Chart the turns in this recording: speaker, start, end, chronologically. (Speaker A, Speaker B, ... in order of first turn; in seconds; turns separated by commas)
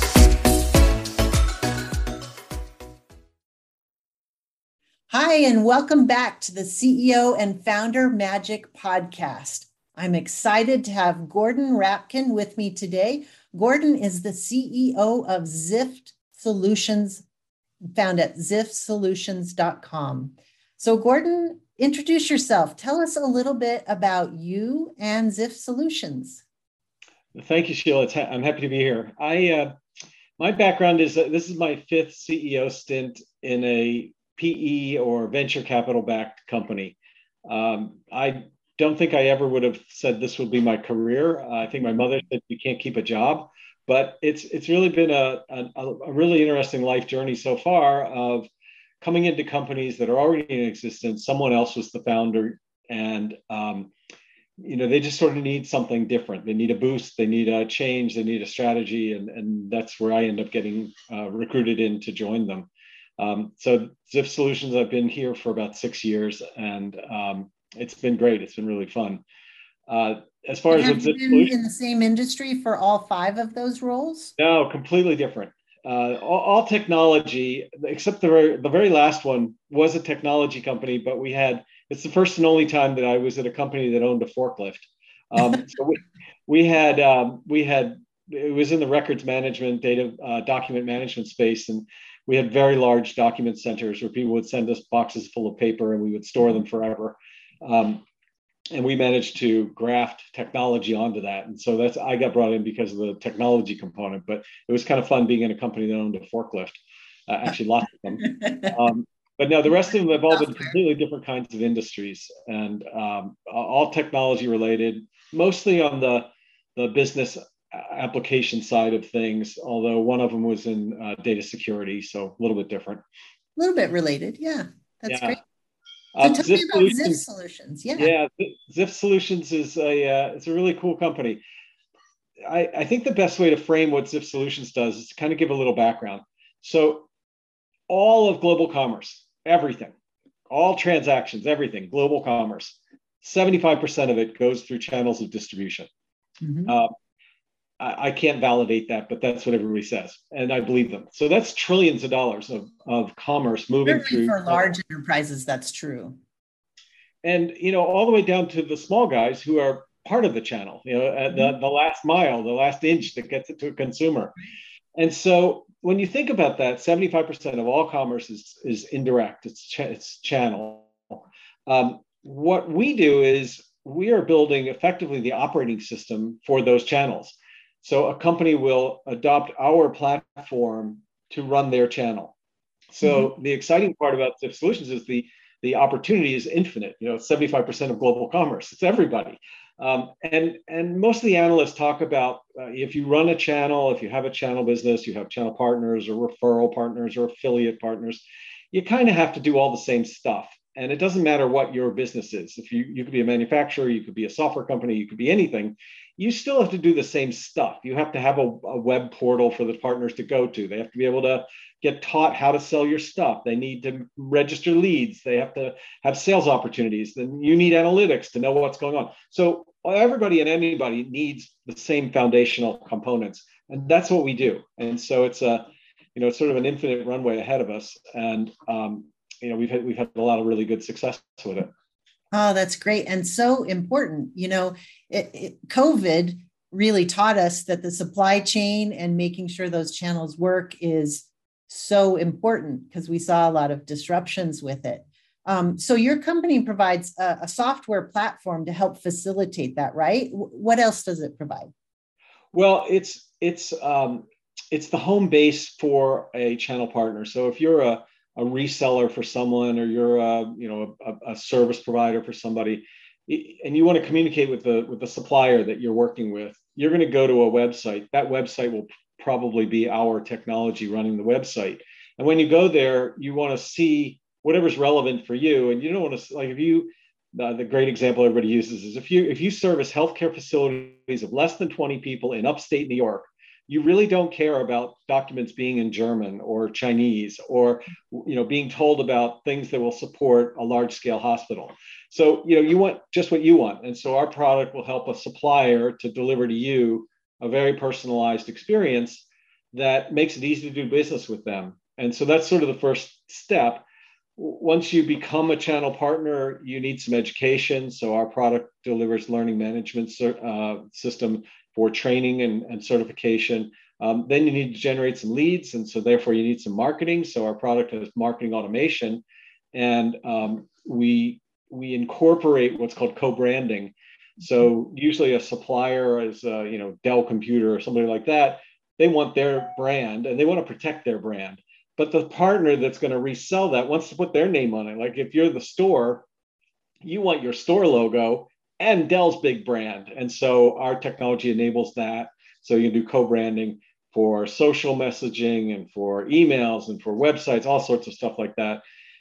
Speaker A: 5.1-17.2, Speaker A: 17.9-26.4, Speaker B: 27.4-29.7, Speaker B: 30.4-48.5, Speaker B: 49.0-53.9, Speaker B: 54.6-69.2, Speaker B: 69.9-71.5, Speaker A: 70.7-74.3, Speaker B: 74.4-98.0, Speaker B: 98.7-123.0, Speaker A: 123.6-125.4, Speaker B: 125.1-125.4, Speaker B: 126.2-127.2, Speaker A: 126.2-128.1, Speaker B: 128.0-131.4, Speaker B: 132.5-137.1, Speaker B: 137.9-139.9, Speaker B: 140.5-145.9, Speaker A: 146.4-146.7, Speaker B: 146.7-146.9, Speaker B: 147.8-154.8, Speaker A: 153.9-156.2, Speaker B: 157.2-164.4, Speaker B: 165.0-182.3, Speaker B: 182.9-231.7, Speaker A: 183.0-183.3, Speaker A: 232.3-251.7, Speaker B: 252.5-303.9, Speaker B: 304.4-319.2, Speaker B: 319.7-336.2, Speaker B: 337.1-348.8